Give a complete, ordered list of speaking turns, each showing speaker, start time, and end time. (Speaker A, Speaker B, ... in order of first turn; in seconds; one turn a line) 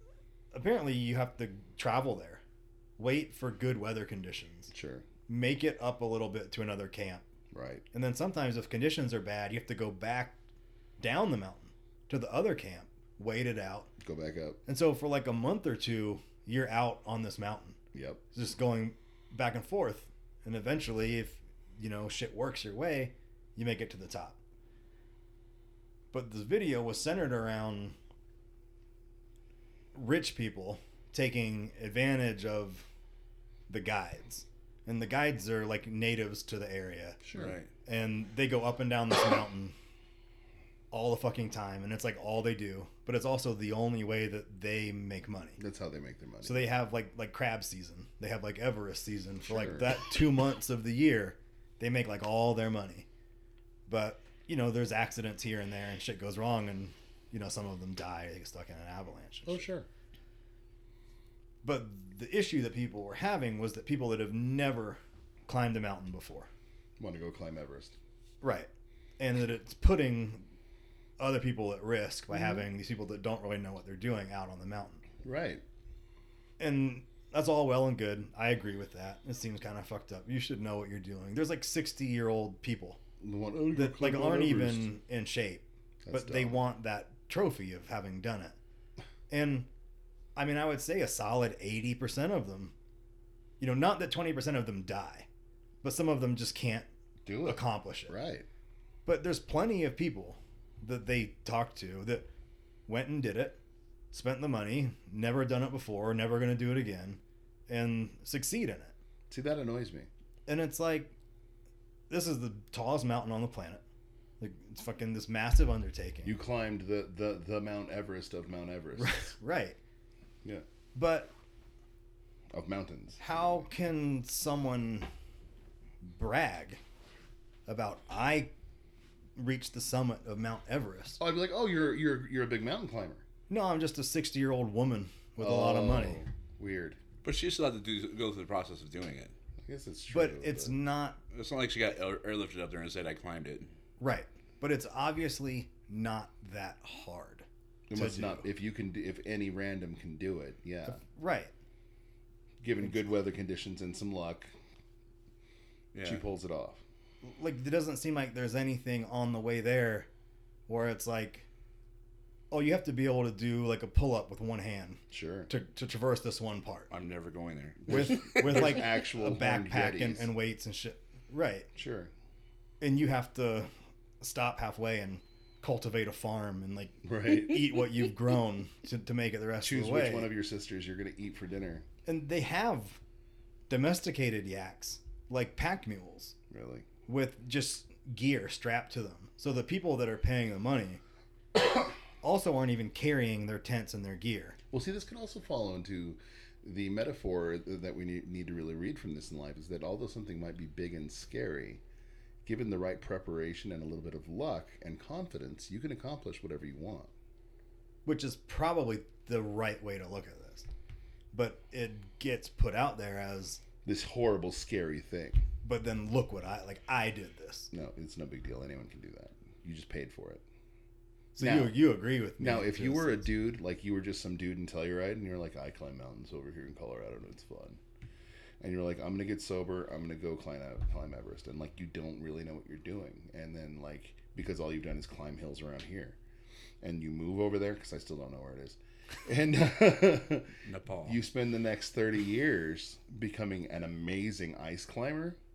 Speaker A: 0.5-2.4
Speaker A: 3.0-4.7
Speaker B: 4.7-5.1
Speaker A: 5.3-7.2
Speaker B: 7.5-7.8
Speaker A: 7.9-10.4
Speaker A: 11.0-13.9
Speaker B: 14.0-14.6
Speaker A: 14.7-17.8
Speaker B: 17.9-18.2
Speaker A: 18.3-24.4
Speaker A: 26.1-28.0
Speaker A: 29.9-32.9
Speaker A: 33.7-37.2
Speaker B: 37.2-37.6
Speaker C: 37.3-37.7
Speaker A: 37.9-39.8
Speaker A: 40.9-45.6
Speaker B: 45.6-46.7
Speaker A: 46.4-53.1
Speaker B: 49.4-50.2
Speaker A: 53.9-59.7
Speaker B: 59.5-59.9
Speaker A: 61.6-66.5
Speaker B: 67.0-68.0
Speaker A: 68.4-70.5
Speaker A: 71.2-75.0
Speaker B: 75.2-75.6
Speaker A: 76.6-83.0
Speaker B: 83.2-84.9
Speaker A: 83.7-88.6
Speaker B: 86.0-86.6
Speaker A: 89.3-89.7
Speaker A: 90.4-92.7
Speaker A: 93.6-95.3
Speaker A: 95.8-96.9
Speaker B: 97.2-98.5
Speaker A: 97.4-98.2
Speaker A: 99.1-102.3
Speaker A: 102.9-103.6
Speaker A: 104.1-108.9
Speaker B: 109.3-110.1
Speaker A: 110.5-111.1
Speaker A: 112.1-113.8
Speaker A: 114.4-116.4
Speaker B: 116.2-119.3
Speaker A: 119.0-119.8
Speaker A: 121.0-121.3
Speaker B: 122.5-123.7
Speaker A: 123.2-125.1
Speaker A: 126.0-126.8
Speaker A: 127.7-128.5
Speaker A: 129.4-131.2
Speaker B: 131.2-133.2
Speaker A: 133.5-136.2
Speaker B: 135.4-137.0
Speaker C: 137.2-139.3
Speaker B: 139.6-140.8
Speaker A: 140.1-141.2
Speaker C: 141.3-143.7
Speaker A: 144.0-148.4
Speaker B: 147.9-151.0
Speaker A: 150.9-151.5
Speaker B: 152.6-154.5
Speaker C: 155.9-156.2
Speaker B: 156.0-156.8
Speaker A: 157.2-160.1
Speaker A: 160.7-161.5
Speaker A: 162.5-166.9
Speaker B: 165.1-165.5
Speaker C: 166.9-168.8
Speaker B: 167.8-170.3
Speaker A: 167.9-171.7
Speaker B: 171.8-172.1
Speaker A: 172.8-180.3
Speaker B: 177.0-177.8
Speaker B: 179.6-181.9
Speaker A: 182.1-183.0
Speaker A: 183.7-186.3
Speaker B: 186.5-186.9
Speaker A: 187.1-191.0
Speaker A: 192.2-194.6
Speaker B: 194.7-201.8
Speaker B: 202.4-207.1
Speaker A: 208.1-210.7
Speaker A: 211.3-213.6
Speaker B: 213.8-215.4
Speaker A: 215.6-217.7
Speaker B: 217.7-220.4
Speaker A: 221.3-223.3
Speaker B: 221.4-221.8
Speaker B: 222.4-227.8
Speaker B: 228.6-236.2
Speaker B: 236.8-245.4
Speaker C: 240.7-241.2